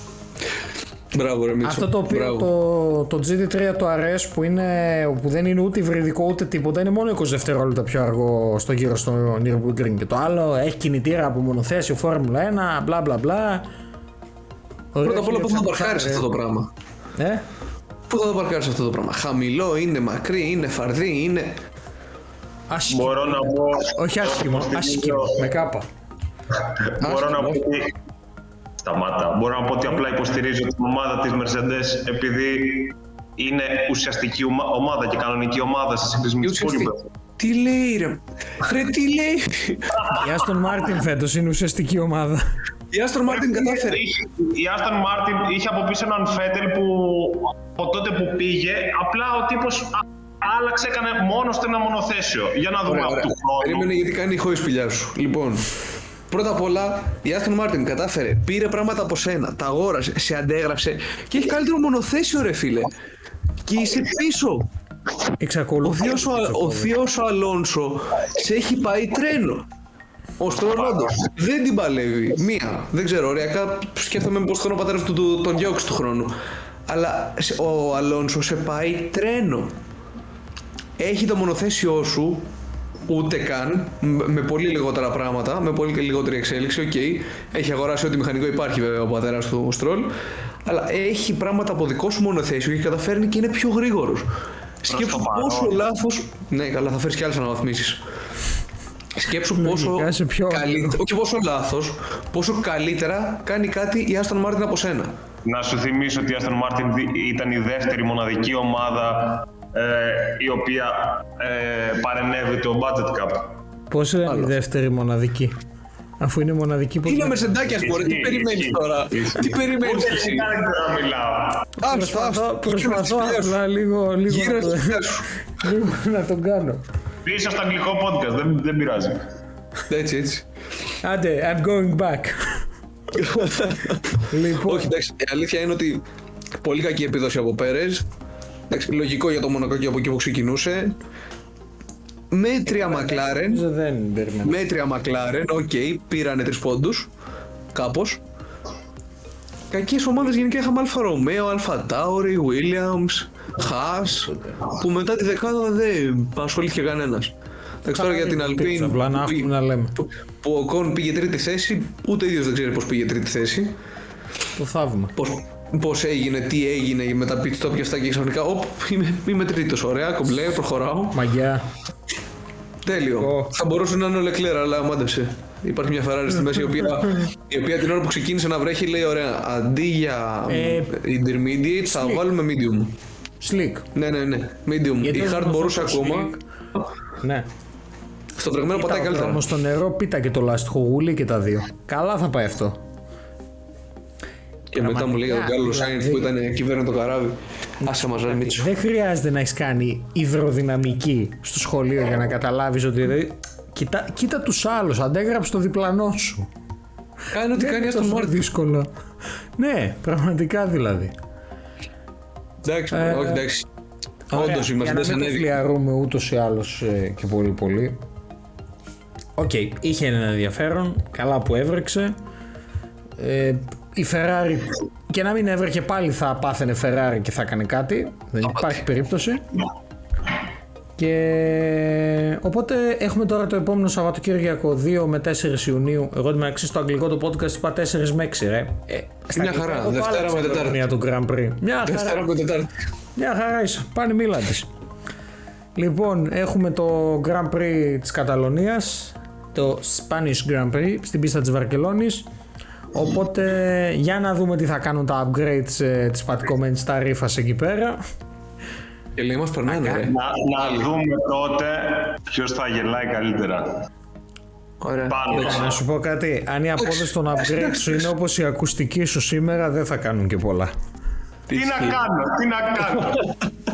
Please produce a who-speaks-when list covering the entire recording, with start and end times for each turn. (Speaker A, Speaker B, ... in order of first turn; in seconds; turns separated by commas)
Speaker A: 1.1-2.5, Speaker B: 1.6-13.6, Speaker B: 14.9-16.3, Speaker A: 15.0-16.7, Speaker B: 17.2-17.4, Speaker A: 18.1-21.5, Speaker B: 22.7-25.9, Speaker C: 22.9-25.4, Speaker C: 26.5-27.9, Speaker A: 27.0-27.6, Speaker C: 28.8-37.0, Speaker A: 36.4-40.1, Speaker B: 40.1-42.4, Speaker A: 42.9-44.0, Speaker C: 43.3-53.9, Speaker A: 52.9-55.7, Speaker A: 56.3-62.9, Speaker A: 63.6-64.7, Speaker B: 65.4-66.9, Speaker A: 65.8-69.7, Speaker A: 70.4-76.3, Speaker A: 76.9-79.7, Speaker A: 81.0-82.5, Speaker A: 83.1-90.1, Speaker A: 90.6-94.3, Speaker A: 94.8-98.0, Speaker C: 94.9-95.8, Speaker A: 99.1-105.1, Speaker B: 99.5-101.0, Speaker C: 105.4-113.5, Speaker B: 113.9-115.6, Speaker A: 114.2-114.5, Speaker B: 116.2-117.7, Speaker A: 117.0-120.5, Speaker C: 117.7-121.7, Speaker A: 121.8-123.6, Speaker B: 121.8-126.8, Speaker A: 124.3-125.3, Speaker C: 127.2-129.2, Speaker A: 129.9-130.4, Speaker B: 131.0-132.4, Speaker A: 133.1-136.0, Speaker B: 134.2-134.9, Speaker A: 136.6-138.1, Speaker A: 138.7-140.9, Speaker A: 142.3-143.6, Speaker B: 142.7-144.6, Speaker A: 144.4-147.1, Speaker A: 147.7-148.2, Speaker A: 149.7-157.3, Speaker A: 157.8-163.7, Speaker B: 157.9-160.0, Speaker B: 164.5-165.1, Speaker A: 165.2-171.2, Speaker B: 171.1-171.7, Speaker A: 172.8-182.9, Speaker B: 172.9-173.5, Speaker B: 176.8-177.3, Speaker B: 180.5-180.9, Speaker B: 181.9-182.2, Speaker B: 183.4-183.9, Speaker A: 183.9-186.3, Speaker B: 185.0-186.4, Speaker B: 187.2-187.5, Speaker A: 188.4-189.4, Speaker B: 188.7-192.8, Speaker A: 194.7-198.7, Speaker B: 194.8-196.3, Speaker B: 197.8-206.5, Speaker A: 207.3-208.4, Speaker B: 207.5-208.9, Speaker B: 209.6-211.1, Speaker A: 212.6-213.7, Speaker B: 212.9-213.4, Speaker B: 214.3-218.0, Speaker A: 214.3-215.5, Speaker B: 219.4-222.1, Speaker B: 223.2-229.4, Speaker A: 228.4-228.8, Speaker B: 231.0-242.2, Speaker A: 239.3-240.9, Speaker A: 241.8-242.7, Speaker B: 243.2-244.7, Speaker B: 245.7-252.2, Speaker B: 252.9-258.0, Speaker A: 259.1-260.9, Speaker B: 259.7-260.1, Speaker C: 260.0-263.8, Speaker A: 264.8-265.7, Speaker C: 265.1-265.8, Speaker B: 265.3-270.7, Speaker A: 266.8-268.1, Speaker A: 271.5-272.0, Speaker C: 271.5-273.3, Speaker A: 272.9-273.2